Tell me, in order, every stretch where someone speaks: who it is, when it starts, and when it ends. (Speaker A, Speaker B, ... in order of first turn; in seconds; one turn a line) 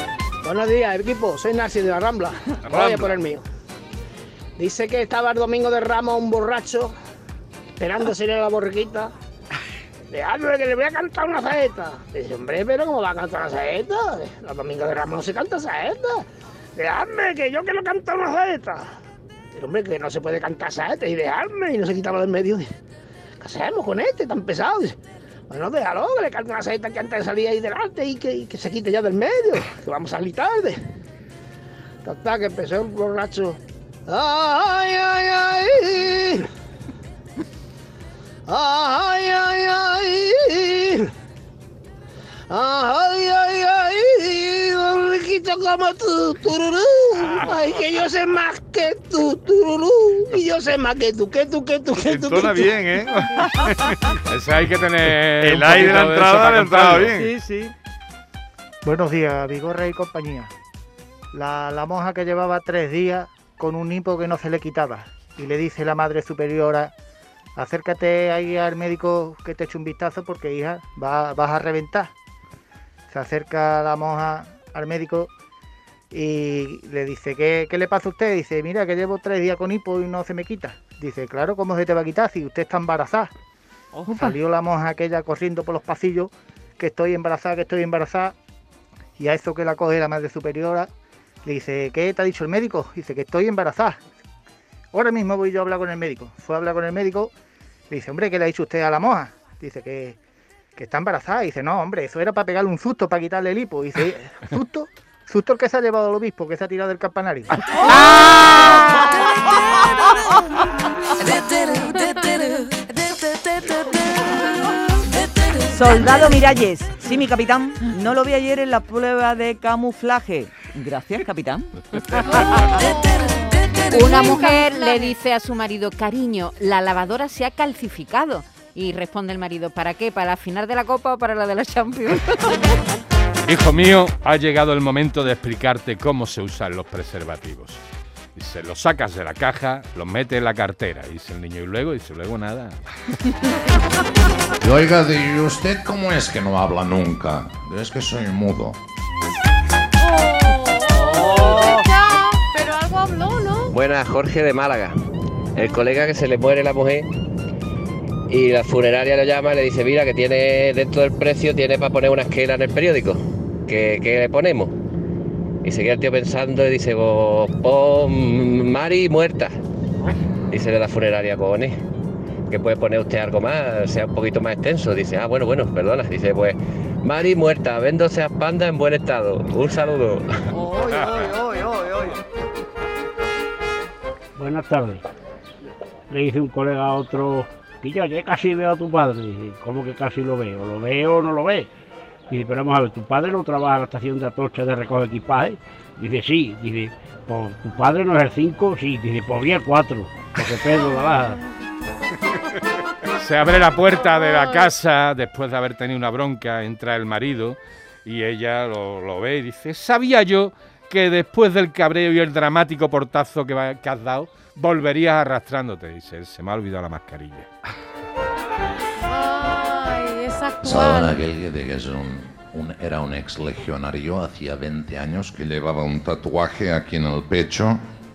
Speaker A: 0.4-3.4
Speaker B: 2.7-3.1
Speaker A: 4.6-6.9
Speaker A: 7.8-9.1
Speaker A: 10.1-16.2
Speaker A: 16.8-18.9
Speaker A: 19.5-22.7
Speaker A: 23.4-25.0
Speaker A: 25.5-30.8
Speaker A: 32.0-36.5
Speaker A: 38.5-41.1
Speaker A: 42.5-52.8
Speaker B: 52.0-54.0
Speaker C: 54.3-57.2
Speaker B: 55.4-57.3
Speaker D: 58.8-60.5
Speaker D: 61.3-66.9
Speaker D: 67.5-72.1
Speaker D: 73.1-75.3
Speaker D: 76.1-83.3
Speaker D: 84.1-88.3
Speaker D: 89.2-90.9
Speaker D: 91.4-94.0
Speaker D: 94.9-97.3
Speaker D: 97.9-100.2
Speaker D: 100.8-107.7
Speaker E: 115.7-121.7
Speaker F: 122.3-125.2
Speaker G: 123.9-132.7
Speaker C: 133.4-137.8
Speaker C: 138.3-142.8
Speaker H: 144.6-148.8
Speaker F: 150.0-153.7
Speaker I: 153.7-154.9
Speaker I: 155.5-157.1
Speaker I: 158.3-164.7
Speaker I: 165.6-169.5
Speaker I: 170.5-171.7
Speaker I: 172.5-180.2
Speaker J: 184.4-185.0
Speaker J: 186.1-191.7
Speaker J: 192.3-201.3
Speaker C: 203.1-217.5
Speaker F: 219.0-221.2
Speaker H: 220.6-227.8